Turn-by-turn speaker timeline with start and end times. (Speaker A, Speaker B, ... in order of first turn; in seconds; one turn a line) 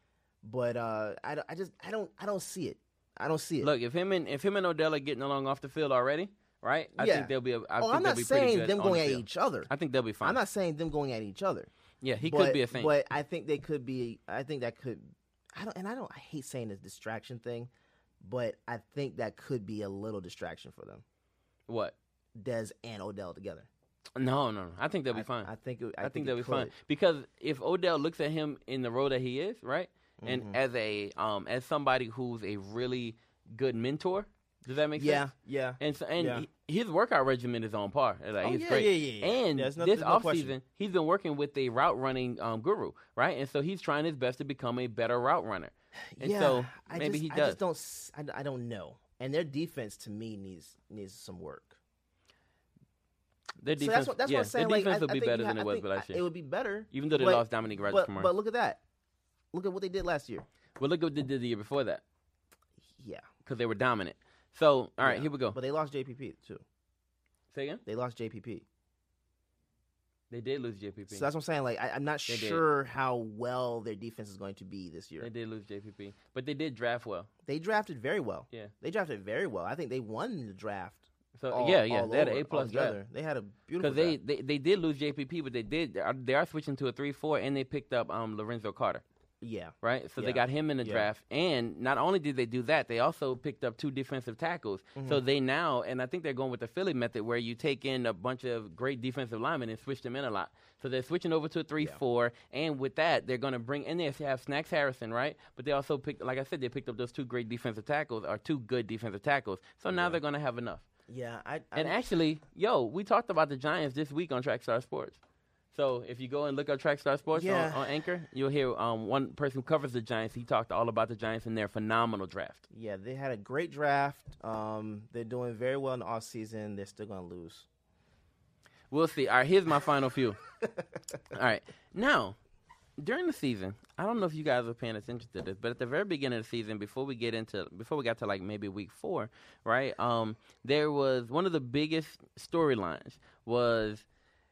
Speaker A: 0.4-3.7
Speaker B: 3.6-10.4
Speaker A: 7.0-9.7
Speaker A: 10.2-11.7
Speaker B: 12.0-12.9
Speaker A: 12.2-17.7
Speaker A: 18.2-21.0
Speaker B: 21.7-21.9
Speaker A: 22.3-23.7
Speaker B: 24.1-25.5
Speaker A: 25.1-26.7
Speaker B: 26.0-47.6
Speaker A: 30.2-30.6
Speaker A: 35.0-36.5
Speaker A: 38.4-40.5
Speaker A: 46.1-51.8
Speaker B: 53.6-56.2
Speaker A: 53.8-58.8
Speaker B: 56.9-58.3
Speaker A: 59.5-60.5
Speaker B: 60.8-62.0
Speaker A: 63.0-63.2
Speaker B: 63.4-65.5
Speaker A: 65.0-66.6
Speaker B: 67.5-67.8
Speaker A: 67.8-68.6
Speaker B: 70.3-71.3
Speaker A: 71.1-75.3
Speaker B: 72.3-72.6
Speaker B: 75.2-77.3
Speaker A: 77.5-84.2
Speaker B: 81.4-83.0
Speaker B: 83.8-89.0
Speaker A: 89.4-91.1
Speaker B: 89.8-110.8
Speaker A: 95.0-95.2
Speaker A: 109.9-110.2
Speaker A: 111.1-112.0
Speaker B: 111.7-115.2
Speaker B: 115.7-122.6
Speaker A: 117.3-117.8
Speaker A: 122.7-127.7
Speaker B: 128.9-130.4
Speaker B: 131.3-132.3
Speaker B: 133.0-144.0